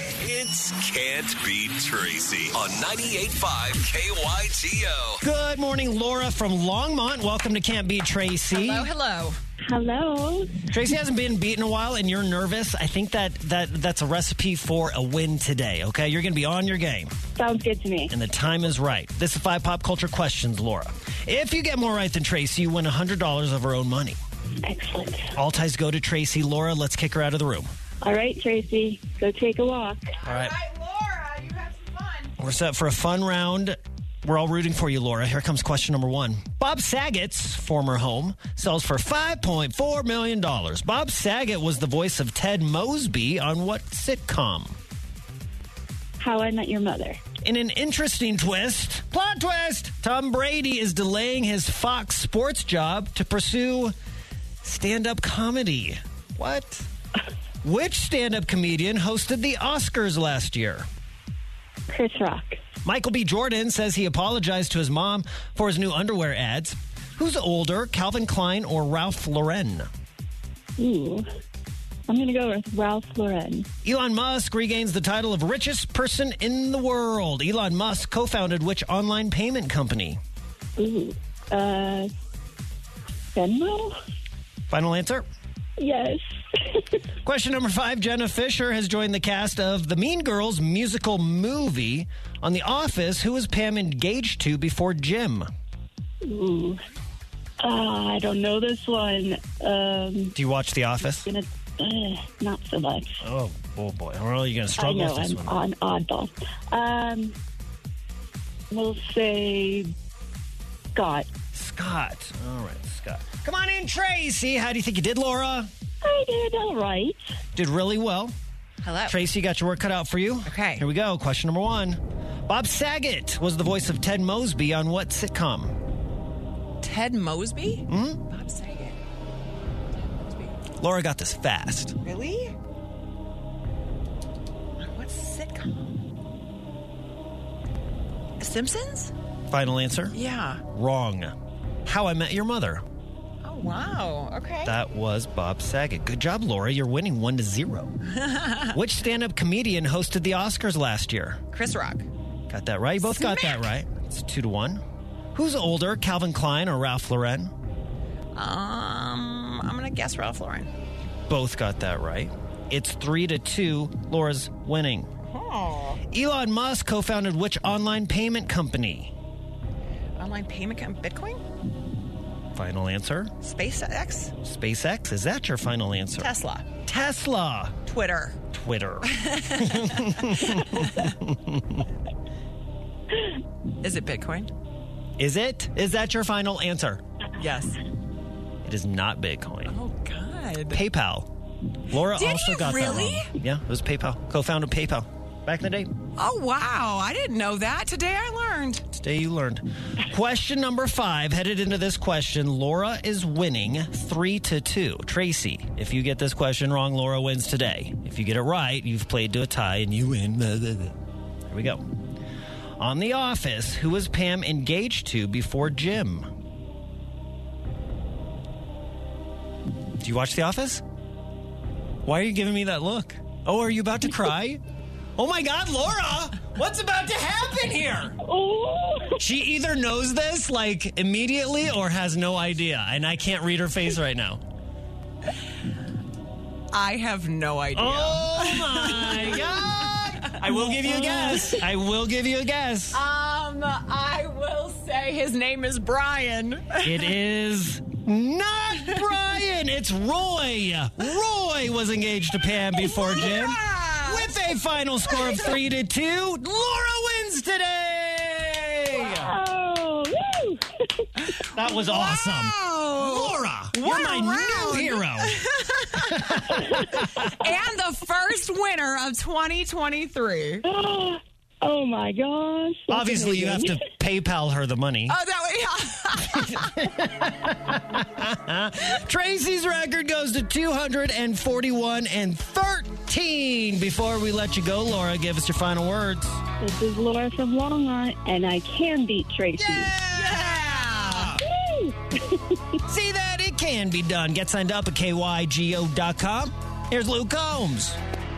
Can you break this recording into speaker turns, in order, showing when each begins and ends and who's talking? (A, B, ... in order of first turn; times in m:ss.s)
0:00.2-0:05.2 A
0:05.2-0:08.9 B
0:08.5-0:09.4 C
0:09.7-0:10.7 D
0:10.7-0:17.1 B
0:17.4-0:18.1 D
0:18.1-0:24.2 B
0:24.6-0:25.3 D
0:25.4-0:27.7 B
0:28.0-0:30.2 D
0:30.2-0:32.3 C
0:30.3-0:30.5 B
0:32.4-0:44.8 B
0:46.2-0:47.2 D
0:47.4-0:53.9 B
0:54.6-0:56.9 B
0:57.6-1:00.9 B
1:01.9-1:02.6 D
1:02.8-1:09.9 B
1:10.8-1:11.2 D
1:12.1-1:13.7 D
1:13.8-1:20.2 B
1:20.8-1:22.1 D
1:23.3-1:24.0 D
1:24.7-1:25.3 B
1:25.8-1:26.2 D
1:27.2-1:35.5 B
1:36.2-1:36.8 D
1:37.6-1:40.4 D
1:40.4-1:41.3 B
1:41.2-1:43.2 D
1:43.2-1:45.6 B
1:44.8-1:47.4 D
1:48.7-1:49.9 D
1:51.0-1:51.3 D
1:51.5-1:55.7 B
1:56.0-1:57.2 D
1:57.6-1:58.3 B
1:58.8-1:59.2 C
1:59.1-2:05.8 B
2:00.5-2:00.8 C
2:06.8-2:09.0 C
2:07.9-2:08.2 B
2:10.0-2:10.6 C
2:10.8-2:12.0 B
2:12.0-2:12.6 C
2:14.8-2:15.9 C
2:18.4-2:19.1 C
2:19.5-2:20.2 B
2:20.1-2:20.6 C
2:20.7-2:21.3 B
2:21.8-2:22.8 B
2:23.4-2:24.8 C
2:24.6-2:28.0 B
2:28.2-2:28.6 C
2:28.6-2:31.4 B
2:31.5-2:32.1 C
2:32.5-2:34.8 B
2:33.0-2:33.7 C
2:35.4-2:37.5 B
2:38.4-2:40.7 C
2:41.3-2:45.1 B
2:45.3-2:46.0 C
2:46.1-2:49.1 B
2:50.2-2:51.4 C
2:52.6-2:53.3 B
2:53.4-2:54.3 C
2:54.4-2:57.8 B
2:56.2-2:56.7 C
2:57.8-2:58.4 C
2:58.5-3:01.8 B
2:59.1-3:01.0 C
3:03.8-3:04.5 C
3:05.2-3:07.0 B
3:07.4-3:07.8 C
3:08.6-3:09.8 B
3:09.7-3:10.8 C
3:10.7-3:11.3 B
3:11.9-3:15.9 B
3:12.0-3:13.3 C
3:16.2-3:18.8 C
3:18.9-3:31.0 B
3:31.5-3:31.8 B
3:32.8-3:36.3 B
3:40.0-3:40.8 B
3:42.0-3:44.6 B
3:45.2-3:48.2 B
3:48.2-3:49.2 D
3:49.2-3:54.4 B
3:56.7-4:01.6 C
3:57.8-4:03.0 B
4:02.9-4:07.1 C
4:06.8-4:19.3 B
4:12.7-4:14.3 C
4:15.1-4:15.6 C
4:18.9-4:21.1 D
4:21.5-4:27.3 B
4:21.7-4:26.3 C
4:27.2-4:30.6 C
4:30.6-4:33.8 D
4:32.9-4:35.2 B
4:35.1-4:36.7 C
4:36.4-4:46.4 B
4:46.6-4:49.9 D
4:49.6-4:51.4 B
4:50.1-4:51.4 C
4:51.4-4:52.6 D
4:52.8-4:58.0 B